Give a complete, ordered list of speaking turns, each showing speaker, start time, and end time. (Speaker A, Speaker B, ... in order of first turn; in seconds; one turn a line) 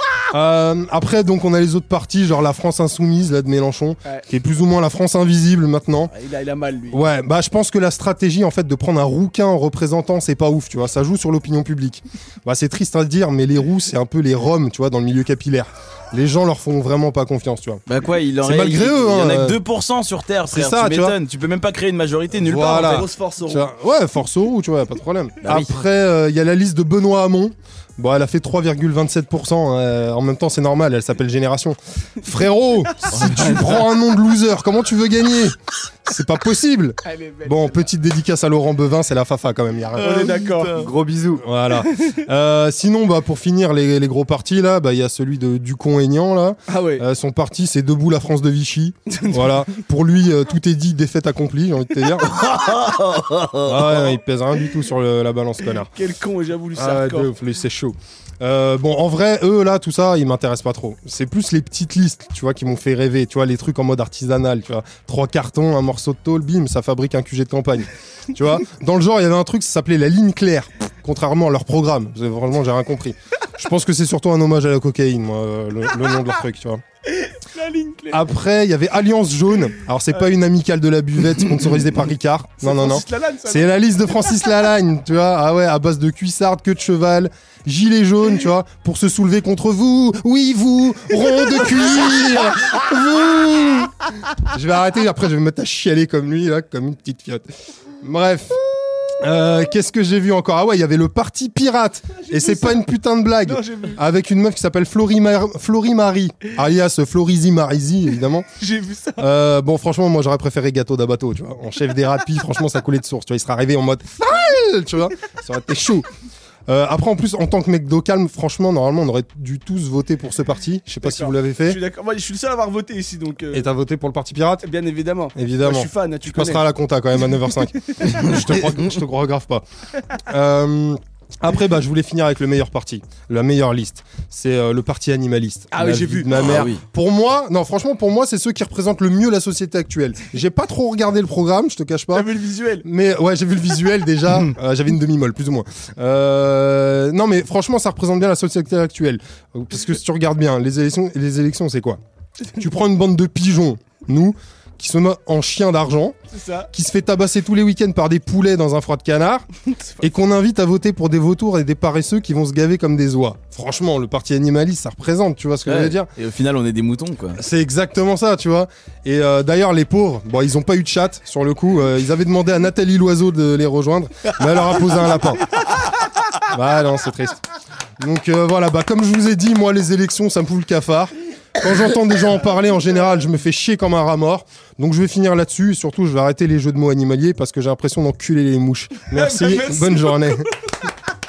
Speaker A: 0.3-6.1
Speaker B: 6.1-7.0
Speaker A: 6.9-17.8
Speaker C: 17.9-23.0
Speaker A: 18.4-19.6
Speaker A: 20.5-21.2
Speaker A: 22.3-52.4
Speaker B: 22.7-23.7
Speaker C: 25.4-25.7
Speaker C: 33.1-33.8
Speaker B: 37.0-37.8
Speaker B: 40.0-40.9
Speaker B: 46.7-47.0
Speaker B: 49.1-49.5
Speaker C: 52.3-53.7
Speaker A: 53.6-55.9
Speaker B: 55.8-57.3
Speaker A: 56.8-76.8
Speaker B: 77.1-78.2
Speaker A: 78.1-97.5
Speaker B: 82.6-83.7
Speaker A: 98.0-98.6
Speaker A: 99.2-108.5
Speaker B: 102.2-102.8
Speaker B: 103.4-104.0
Speaker B: 108.6-109.3
Speaker A: 109.2-116.1
Speaker A: 116.7-121.8
Speaker B: 121.0-123.7
Speaker A: 123.5-124.7
Speaker B: 124.6-126.6
Speaker A: 125.3-142.3
Speaker B: 135.7-136.4
Speaker C: 136.3-136.8
Speaker B: 142.1-142.8
Speaker A: 142.8-152.0
Speaker A: 152.5-156.2
Speaker B: 156.3-156.7
Speaker A: 156.7-159.4
Speaker A: 160.0-166.1
Speaker C: 165.7-167.4
Speaker A: 167.3-175.6
Speaker A: 176.4-177.4
Speaker A: 178.0-190.5
Speaker B: 189.1-190.4